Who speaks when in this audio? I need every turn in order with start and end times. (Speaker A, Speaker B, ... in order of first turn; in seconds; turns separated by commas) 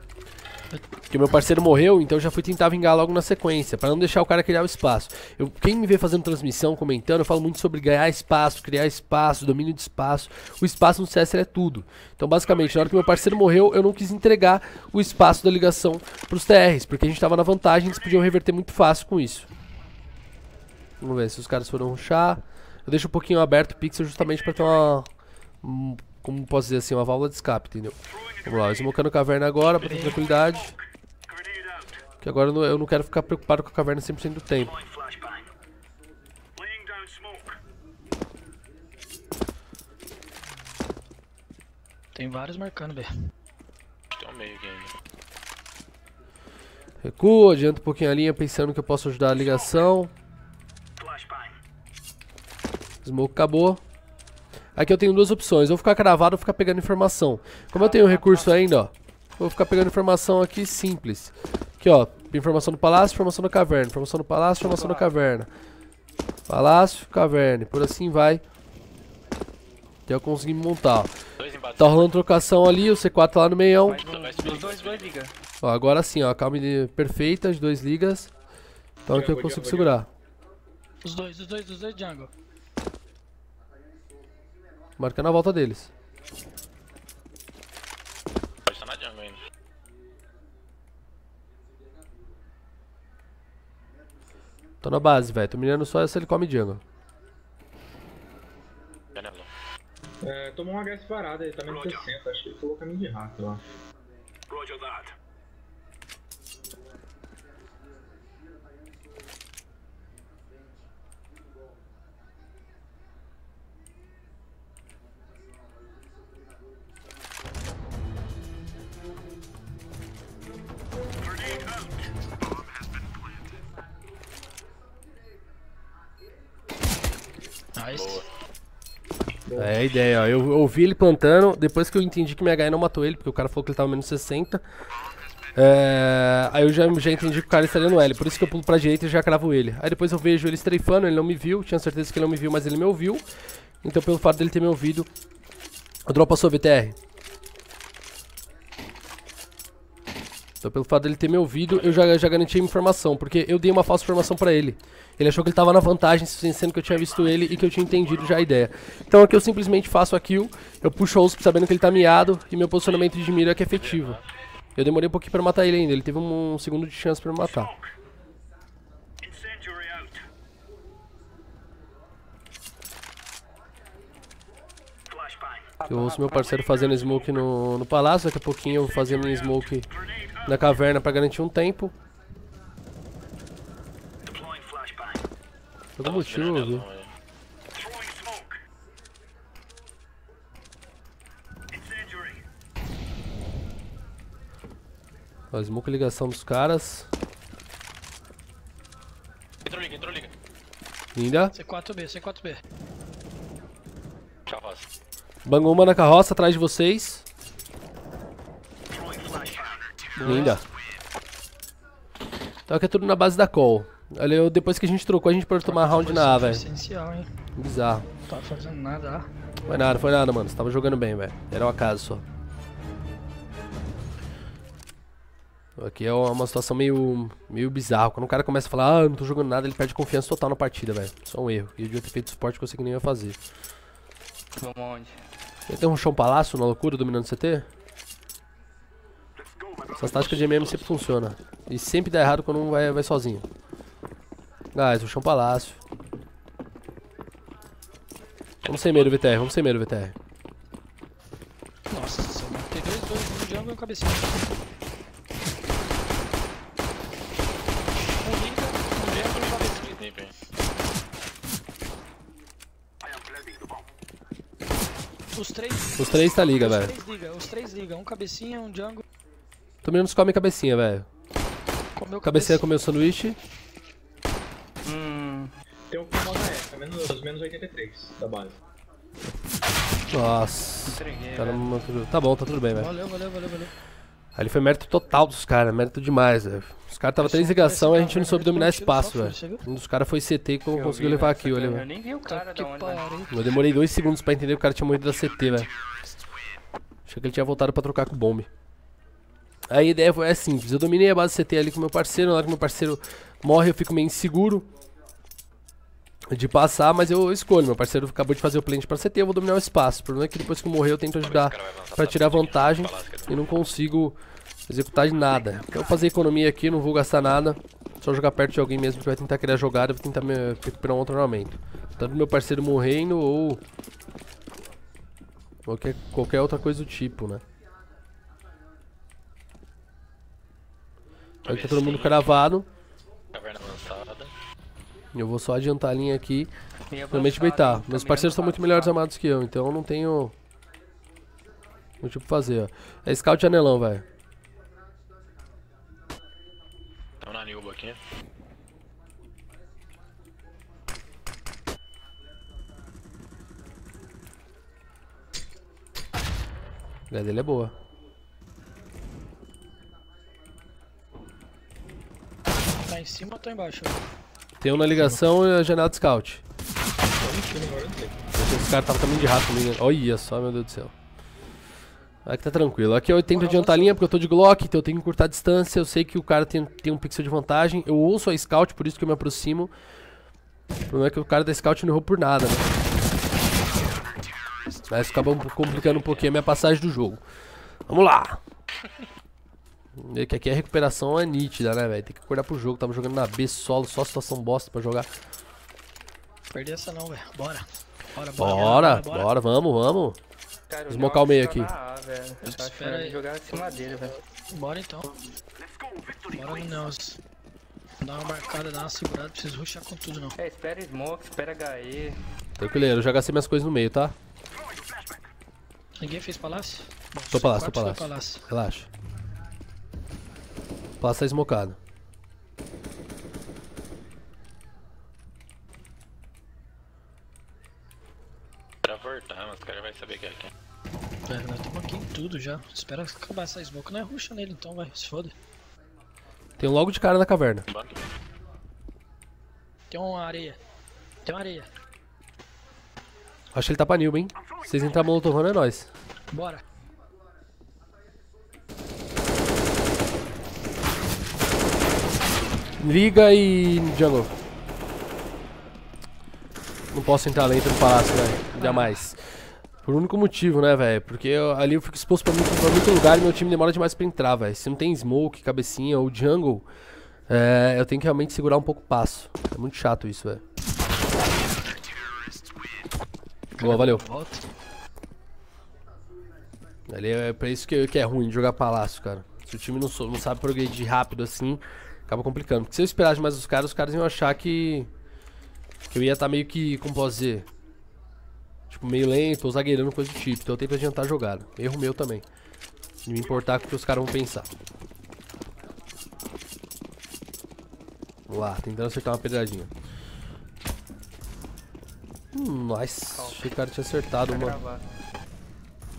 Speaker A: 1.1-19.5, Speaker A: 21.0-25.1, Speaker A: 25.6-30.8, Speaker B: 29.8-30.2, Speaker A: 32.2-34.8, Speaker B: 42.1-43.1, Speaker C: 44.1-44.9, Speaker A: 47.0-50.1, Speaker A: 53.0-53.8, Speaker A: 54.7-65.5, Speaker D: 57.7-58.6, Speaker D: 64.6-65.1, Speaker A: 66.5-68.4, Speaker A: 70.1-71.1, Speaker C: 71.4-72.1, Speaker A: 71.8-74.0, Speaker D: 73.8-75.3, Speaker C: 73.9-75.1, Speaker A: 75.6-78.3, Speaker A: 79.0-80.1, Speaker E: 79.1-80.0, Speaker B: 81.0-82.3, Speaker A: 85.0-85.9, Speaker C: 88.6-89.4, Speaker A: 94.8-96.8, Speaker C: 99.1-99.5, Speaker E: 100.2-103.7, Speaker B: 127.8-128.2, Speaker C: 127.9-128.2, Speaker E: 129.4-129.7, Speaker A: 129.6-134.6, Speaker A: 135.5-143.2, Speaker A: 143.8-145.1, Speaker A: 146.1-146.9, Speaker A: 150.6-164.2, Speaker C: 151.7-152.0, Speaker C: 163.7-164.2, Speaker A: 164.8-167.7, Speaker D: 175.8-176.8, Speaker A: 175.9-179.9, Speaker A: 180.4-181.9, Speaker A: 186.0-186.8, Speaker C: 186.0-187.1, Speaker A: 195.5-197.1, Speaker C: 199.6-200.3, Speaker A: 201.1-201.5, Speaker B: 201.5-202.6, Speaker C: 204.5-204.9, Speaker A: 205.4-207.2, Speaker B: 210.2-210.6, Speaker A: 210.2-210.6, Speaker A: 212.7-216.6, Speaker B: 215.6-217.3, Speaker A: 217.6-218.1, Speaker B: 218.3-219.3, Speaker A: 219.7-222.2, Speaker A: 225.8-233.4, Speaker D: 234.6-235.2, Speaker A: 235.7-237.7, Speaker A: 239.9-243.4, Speaker C: 240.1-240.7, Speaker A: 244.7-245.8, Speaker A: 248.6-250.1, Speaker C: 248.7-249.1, Speaker B: 251.9-254.4, Speaker B: 258.1-260.0, Speaker C: 259.0-260.3, Speaker B: 265.3-269.0, Speaker A: 266.0-266.9, Speaker A: 269.8-271.1, Speaker B: 271.9-272.6, Speaker A: 272.2-273.4, Speaker D: 274.8-275.5, Speaker E: 275.9-278.6, Speaker A: 280.1-282.9, Speaker D: 280.8-281.7, Speaker B: 282.7-283.7, Speaker A: 284.3-291.9, Speaker B: 287.2-289.6, Speaker D: 290.7-293.1, Speaker B: 292.2-293.3, Speaker A: 293.3-295.7, Speaker A: 297.1-298.5, Speaker A: 299.7-304.7, Speaker A: 306.3-323.6, Speaker C: 311.2-313.4, Speaker A: 325.6-327.4, Speaker A: 331.4-332.7, Speaker C: 331.4-332.2, Speaker C: 333.3-334.3, Speaker A: 335.1-336.5, Speaker D: 336.9-339.0, Speaker A: 337.1-340.3, Speaker A: 342.0-344.0, Speaker C: 347.2-348.0, Speaker A: 357.1-357.7, Speaker B: 362.8-364.1, Speaker A: 364.6-366.4, Speaker E: 367.2-368.2, Speaker A: 368.3-370.9, Speaker A: 372.2-379.7, Speaker B: 373.3-374.0, Speaker A: 380.9-382.7, Speaker A: 384.9-387.2, Speaker C: 385.7-386.2, Speaker A: 387.9-388.4, Speaker A: 390.0-395.1, Speaker B: 396.5-399.3, Speaker A: 398.4-400.2, Speaker D: 400.7-404.2, Speaker A: 400.9-401.7, Speaker B: 402.4-403.9, Speaker B: 404.5-405.2, Speaker B: 406.3-407.2, Speaker B: 408.0-410.3, Speaker D: 410.3-412.2, Speaker A: 412.6-414.1, Speaker B: 416.0-418.4, Speaker A: 417.3-418.9, Speaker A: 421.0-421.8, Speaker C: 428.8-430.5, Speaker B: 431.3-435.3, Speaker A: 436.6-437.6, Speaker C: 437.7-438.1, Speaker B: 439.9-440.6, Speaker B: 441.2-441.7, Speaker A: 443.5-445.9, Speaker B: 446.3-446.6, Speaker A: 452.8-454.3, Speaker A: 456.9-459.2, Speaker D: 458.3-458.9, Speaker A: 459.8-466.6, Speaker A: 467.3-470.4, Speaker A: 473.6-474.1, Speaker B: 473.6-474.4, Speaker A: 476.9-484.9, Speaker A: 485.9-487.5, Speaker A: 488.7-492.2, Speaker A: 493.1-494.5, Speaker A: 498.3-499.7, Speaker A: 502.3-504.6, Speaker D: 503.1-503.5, Speaker D: 504.2-504.9